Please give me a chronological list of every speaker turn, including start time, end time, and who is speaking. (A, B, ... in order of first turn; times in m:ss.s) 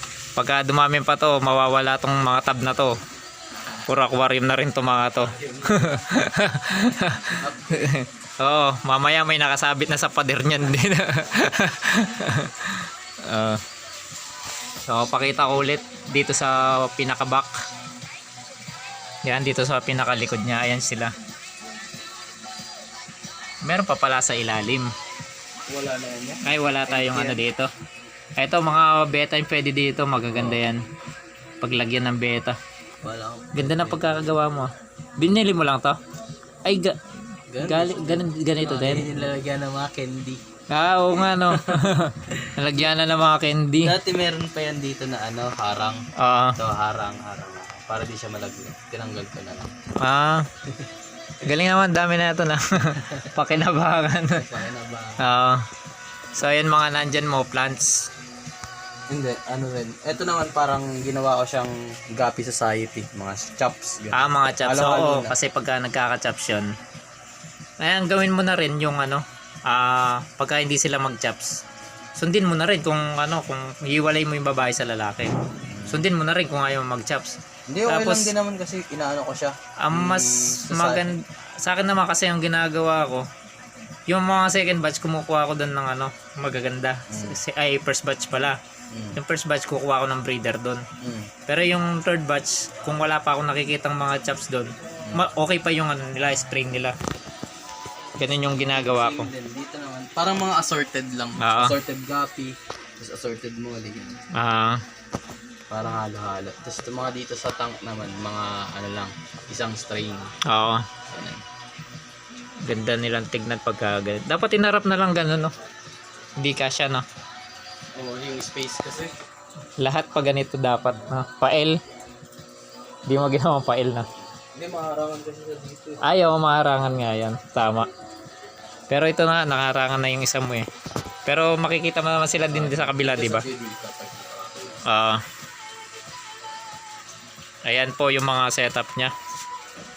0:00.4-0:03.0 A
0:03.9-0:13.6 A
0:05.2-0:05.8 B
0:07.4-0:07.8 B
0:14.9-0:17.5 A
0:19.2-0:21.1 A
0:23.6-0:24.9 A
0:25.7-0:27.4 B
0:26.4-0:27.7 A
0:28.4-0:30.8 A
0:30.3-0:30.7 B
0:31.6-0:32.6 A
0:33.0-0:34.4 B
0:33.6-0:36.0 A
0:36.6-0:37.0 A
0:37.5-0:40.4 B
0:37.6-0:39.1 A
0:40.7-0:44.0 A
0:41.3-0:42.4 B
0:43.8-0:46.0 B
0:46.2-0:46.6 A
0:46.6-0:49.7 B
0:50.0-0:50.5 A
0:51.4-0:54.4 A
0:53.0-0:53.3 B
0:54.3-0:55.2 B
0:55.2-0:55.6 A
0:56.4-0:58.1 A
0:59.1-1:05.4 B
1:04.1-1:06.7 A
1:07.8-1:11.6 A
1:12.2-1:15.3 A
1:15.7-1:16.1 B
1:15.9-1:18.3 A
1:17.7-1:21.1 B
1:19.8-1:23.3 A
1:24.1-1:28.6 A
1:27.1-1:27.4 B
1:28.9-1:29.2 B
1:29.2-1:30.8 A
1:31.0-1:31.3 B
1:31.5-1:37.0 A
1:38.2-1:39.3 A
1:38.5-1:44.2 B
1:41.4-1:41.8 A
1:44.4-1:44.8 A
1:45.7-1:50.3 B
1:50.5-1:50.9 A
1:51.1-1:51.4 B
1:52.6-1:55.5 A
1:56.4-1:57.1 A
1:58.0-1:59.1 B
1:59.8-2:01.8 A
2:03.1-2:04.1 A
2:04.4-2:06.0 B
2:06.0-2:07.9 A
2:08.9-2:10.7 A
2:11.3-2:13.4 A
2:12.5-2:14.8 B
2:14.9-2:15.2 A
2:17.6-2:19.1 A